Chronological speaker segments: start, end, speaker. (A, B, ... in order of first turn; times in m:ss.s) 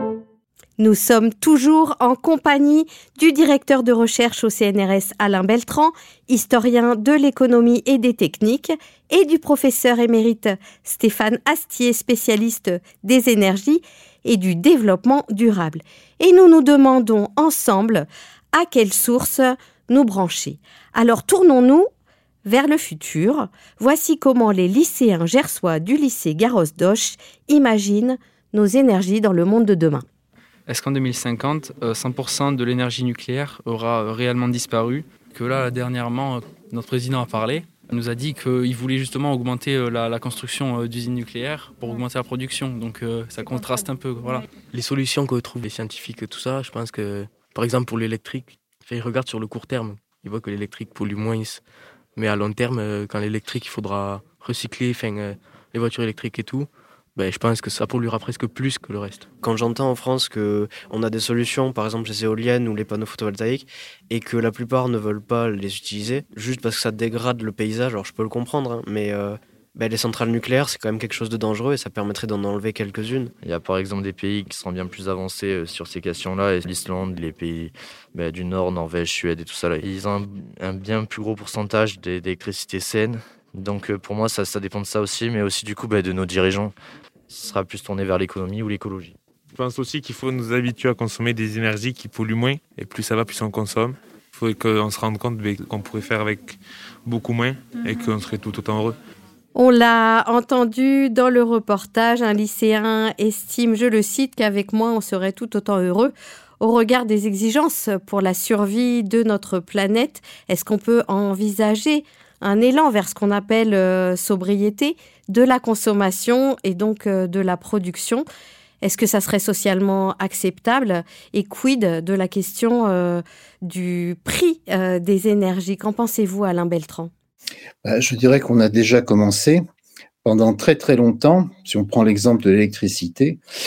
0:00.8-0:21.9 A
0:22.4-0:30.0 A
0:30.7-0:44.5 B
0:44.7-0:51.6 C
0:52.2-0:59.3 C
0:59.4-1:13.3 D
1:13.4-1:26.7 E
1:27.3-1:29.1 E
1:29.5-1:39.0 F
1:39.6-1:58.3 A
1:58.8-2:07.1 A
2:07.8-2:09.6 G
2:10.2-2:13.4 G